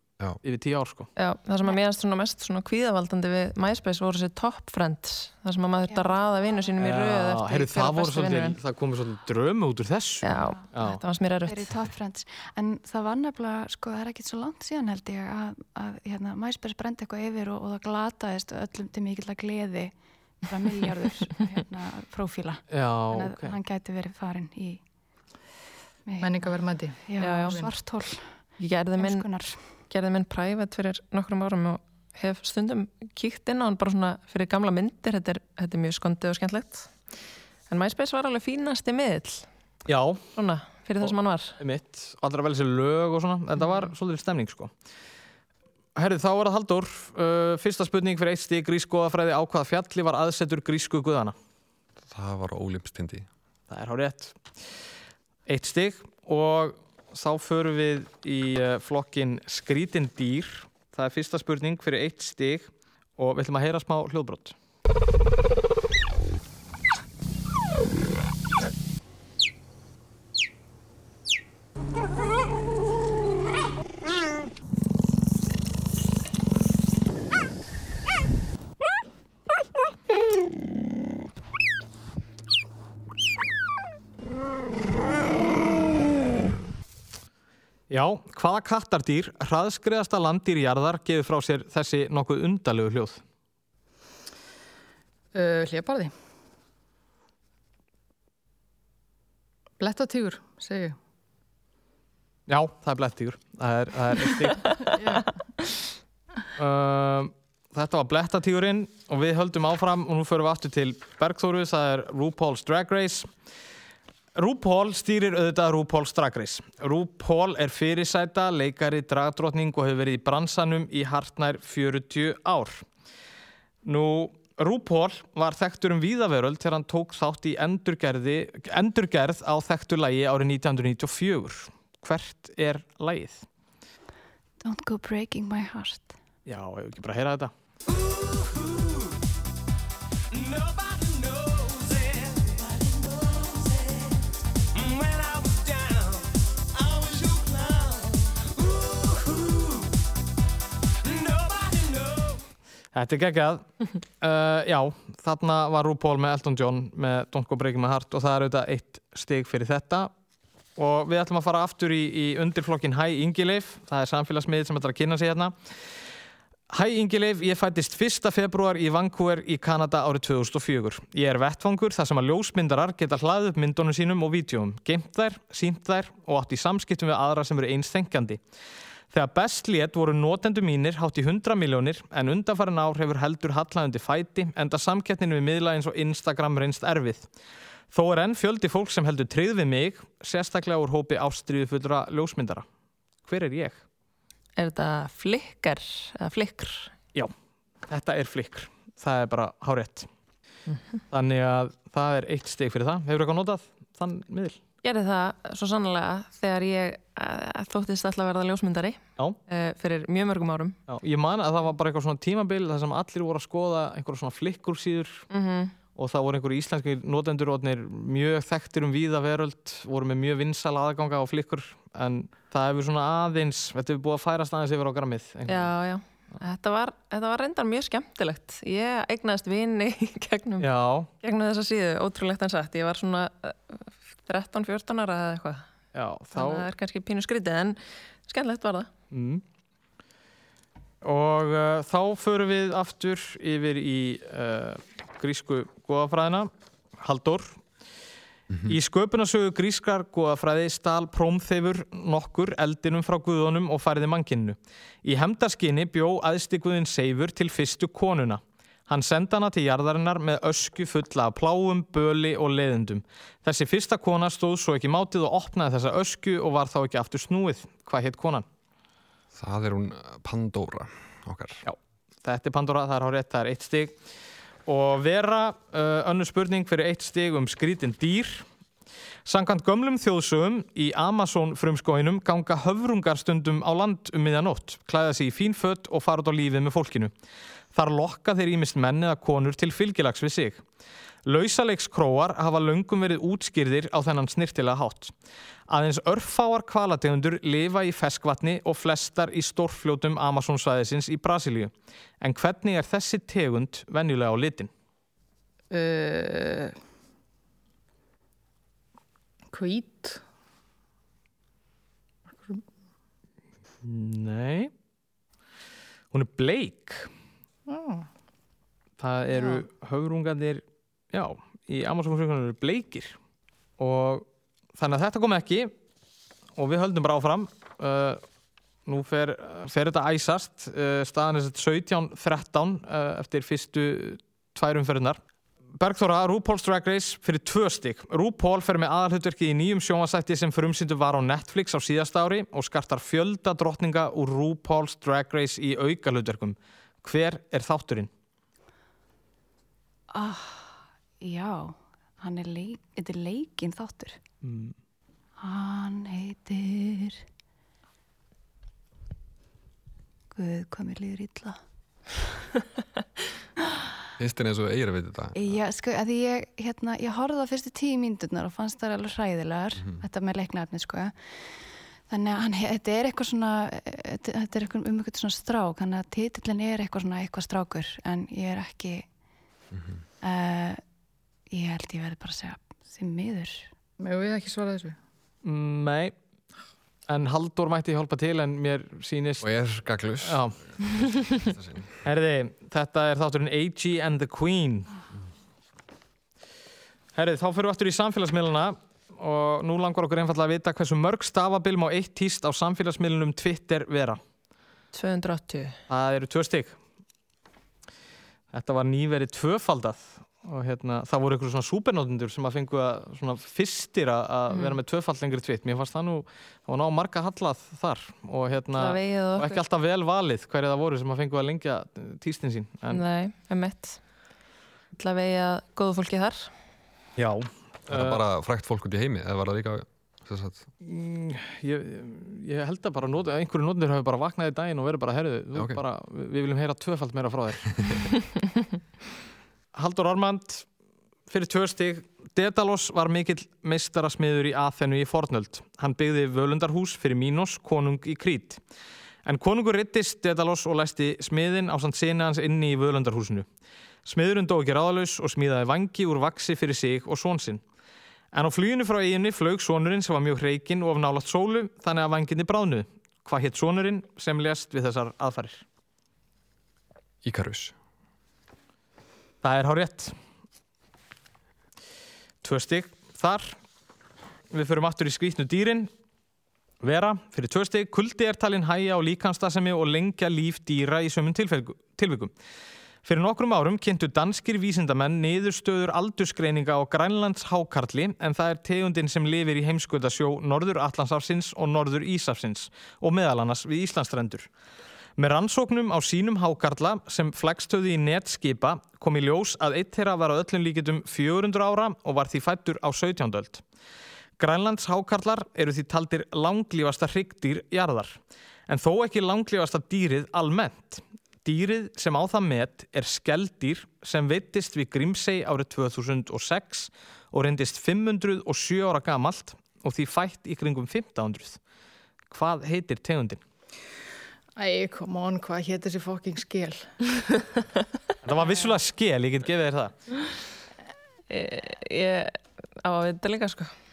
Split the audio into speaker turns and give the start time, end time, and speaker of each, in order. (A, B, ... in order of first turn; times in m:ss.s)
0:00.4-0:01.1 A
0:01.2-0:08.6 B
0:05.9-0:06.6 C
0:06.8-0:11.0 A
0:10.2-0:11.7 B
0:10.3-0:10.7 C
0:11.4-0:24.8 C
0:22.7-0:23.6 A
0:26.0-0:26.6 C
0:26.2-0:27.7 D
0:27.1-0:28.4 C
0:27.2-0:27.6 B
0:28.6-0:36.9 B
0:29.0-0:29.6 C
0:37.7-0:39.5 B
0:39.9-0:40.2 A
0:40.4-0:41.6 B
0:41.0-0:44.7 A
0:46.0-0:51.4 A
0:52.0-0:53.3 E
0:53.7-0:54.7 A
0:55.5-1:04.6 A
1:27.9-1:33.2 A
1:35.3-1:36.1 D
1:39.8-1:41.0 D
1:42.5-1:44.9 A
1:45.0-1:45.4 D
1:46.6-1:53.3 A
1:54.4-2:02.8 A
2:03.8-2:13.5 A
2:14.6-2:16.1 C
2:16.5-2:17.5 A
2:21.3-2:21.8 A
2:25.0-2:26.0 A
2:32.9-2:40.1 A
2:40.8-2:45.8 A
2:46.7-2:58.4 A
2:59.1-3:07.3 A
3:07.9-3:12.6 A
3:13.2-3:13.8 A
3:14.6-3:16.9 B
3:17.9-3:20.1 A
3:20.7-3:21.0 B
3:21.1-3:24.6 A
3:24.8-3:30.8 B
3:30.9-3:35.3 A
3:35.3-3:35.7 B
3:36.0-3:45.7 A
3:45.5-3:50.7 B
3:50.6-3:51.1 A
3:51.2-3:55.7 B
3:55.9-3:56.7 A
3:56.4-3:58.9 B
3:59.1-3:59.4 A
4:01.0-4:07.6 A
4:08.5-4:08.8 E
4:08.7-4:28.4 A
4:29.3-4:31.6 E
4:31.6-4:34.0 A
4:34.7-4:38.4 A
4:39.3-4:47.1 A
4:47.7-4:50.6 A
4:51.2-4:55.1 A
4:55.7-5:04.7 A
5:05.7-5:06.8 D
5:09.5-5:10.2 D
5:13.8-5:14.7 A
5:16.1-5:17.1 A
5:17.7-5:18.1 D
5:19.0-5:23.2 A
5:19.3-5:19.6 D
5:23.8-5:24.2 A
5:24.8-5:25.7 A
5:26.6-5:28.2 A
5:28.9-5:35.2 A
5:35.8-5:48.1 A
5:50.1-5:54.2 C
5:54.4-5:54.8 A
5:55.4-5:57.2 C
6:00.3-6:01.6 C
6:04.2-6:05.6 E
6:05.4-6:19.1 C
6:19.7-6:20.0 E
6:20.2-6:20.8 C
6:21.5-6:23.7 C
6:24.0-6:25.0 D
6:25.4-6:26.2 A
6:27.1-6:29.5 A
6:29.4-6:32.0 E
6:30.2-6:30.6 A
6:32.0-6:34.9 A
6:37.2-6:44.2 A
6:44.9-6:45.8 B
6:45.9-6:46.8 A
6:48.5-7:03.0 A
6:54.5-6:54.8 B
6:58.8-6:59.6 B
7:02.9-7:04.0 B
7:05.0-7:06.5 B
7:07.2-7:08.2 A
7:07.9-7:10.7 E
7:10.8-7:18.0 A
7:15.6-7:15.8 E
7:19.7-7:20.7 A
7:21.3-7:28.6 A
7:29.2-7:33.5 A
7:34.0-7:37.6 A
7:38.3-7:45.6 A
7:47.2-7:47.8 E
7:49.4-7:50.2 A
7:52.4-7:53.6 A
7:54.5-7:55.9 A
7:56.8-8:02.3 A
8:03.0-8:14.5 A
8:15.2-8:23.6 A
8:24.4-8:41.6 A
8:42.3-8:43.4 A
8:44.6-8:47.1 D
8:48.2-8:50.0 A
8:48.4-8:48.7 D
8:51.3-8:53.7 B